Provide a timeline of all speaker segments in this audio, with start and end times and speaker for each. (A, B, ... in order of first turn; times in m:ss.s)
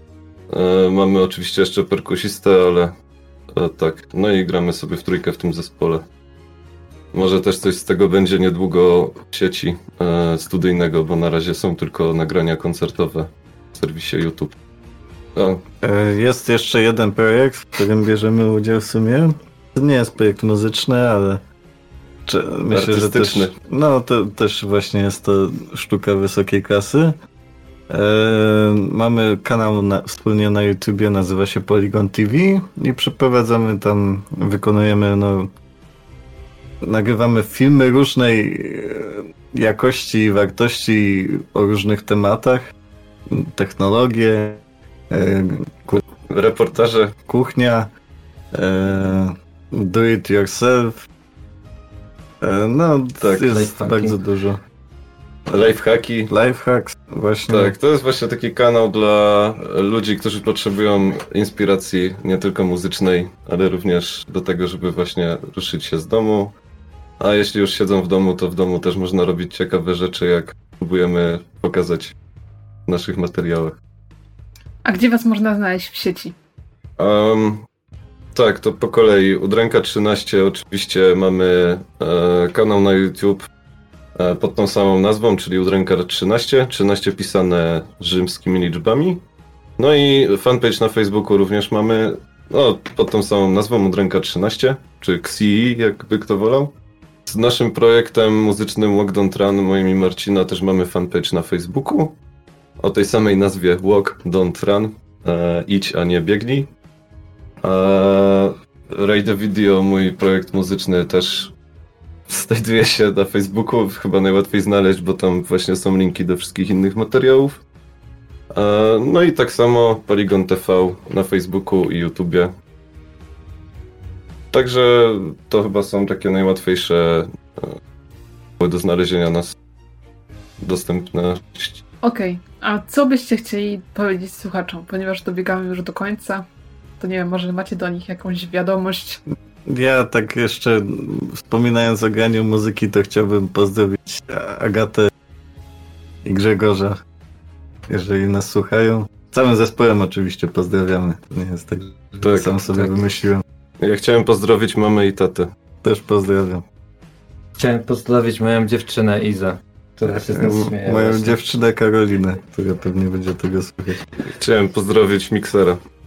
0:00.5-0:02.9 A
0:03.5-0:06.0 A
0:07.1-0:14.5 A
0:15.4-0:15.6 A
0:15.8-0:21.4 B
0:22.2-0:27.2 B
0:22.7-0:23.5 A
0:27.9-0:35.5 B
0:36.8-0:42.7 B
0:43.3-0:46.0 B
0:46.3-0:47.1 A
0:47.3-0:47.9 B
0:48.5-0:51.0 B
0:52.4-0:54.6 B
0:53.3-0:54.2 C
0:55.5-0:56.3 A
0:56.3-0:57.8 B
0:57.5-1:06.5 A
1:07.2-1:12.1 A
1:12.9-1:13.8 A
1:14.8-1:16.3 D
1:17.0-1:17.6 A
1:18.3-1:23.4 A
1:24.1-1:29.2 A
1:29.8-1:36.7 A
1:37.3-1:42.2 A
1:42.8-1:46.7 A
1:47.6-1:51.5 A
1:52.3-1:57.6 A
1:58.5-2:02.5 A
2:04.5-2:07.8 A
2:08.6-2:09.5 A
2:10.6-2:11.8 A
2:12.0-2:16.4 D
2:17.0-2:19.2 D
2:19.6-2:25.1 B
2:26.2-2:27.0 B
2:27.9-2:33.4 B
2:32.2-2:32.5 A
2:33.8-2:35.5 A
2:35.8-2:36.6 B
2:37.6-2:41.4 C
2:40.1-2:44.0 B
2:44.3-2:45.8 A